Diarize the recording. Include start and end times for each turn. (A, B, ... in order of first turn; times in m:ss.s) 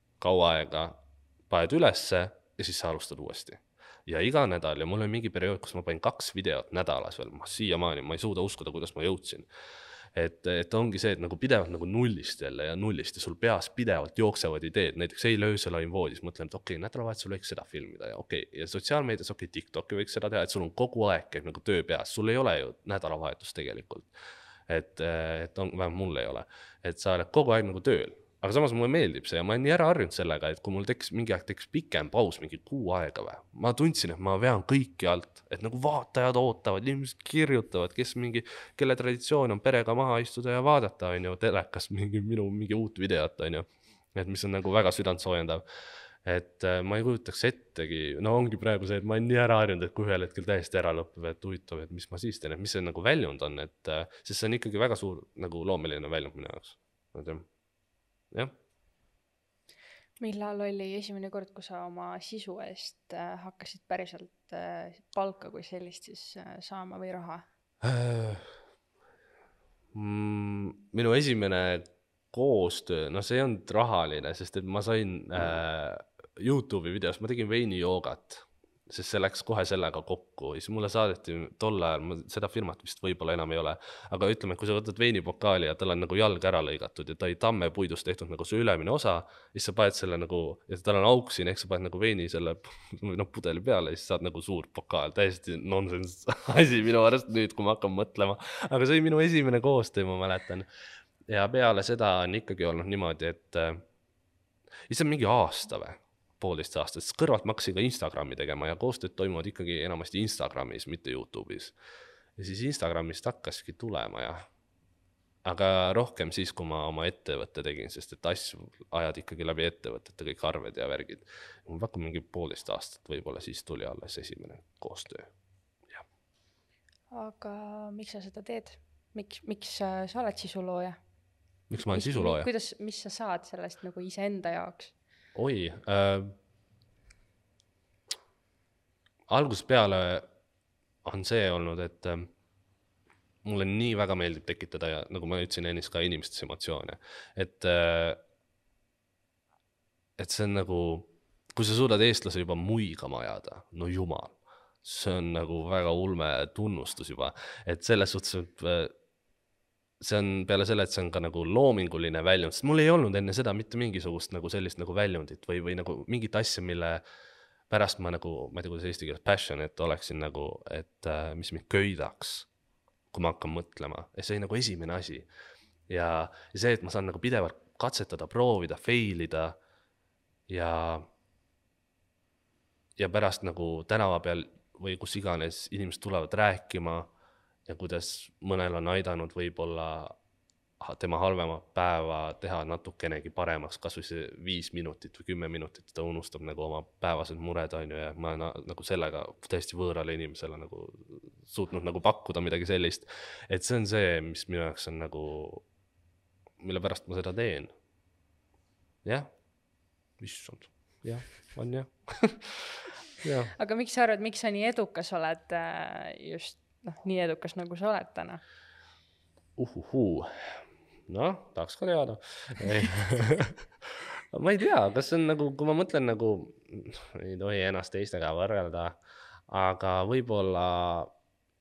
0:00.2-0:09.5 A
0:10.2-0:24.1 A
0:24.7-0:45.6 A
0:46.2-0:57.5 A
1:00.2-1:07.5 B
1:07.8-1:08.5 A
1:09.9-1:40.7 A
1:41.3-1:43.8 A
1:44.9-1:51.7 A
1:52.4-1:54.5 A
1:55.4-2:05.3 A
2:07.1-2:11.0 B
2:11.7-2:12.5 A
2:11.8-2:15.0 B
2:15.4-2:16.4 A
2:19.3-2:20.3 A
2:21.0-2:22.3 A
2:23.4-2:28.2 A
2:30.2-2:39.0 A
2:40.0-2:47.0 A
2:47.7-2:52.5 A
2:53.1-2:55.3 A
2:55.9-2:59.6 A
3:00.5-3:01.1 A
3:03.0-3:07.1 A
3:07.7-3:10.2 A
3:10.8-3:25.7 A
3:26.6-3:27.7 A
3:29.0-3:29.4 A
3:30.2-3:33.5 A
3:33.6-3:38.4 B
3:39.6-3:49.0 A
3:49.5-3:51.1 A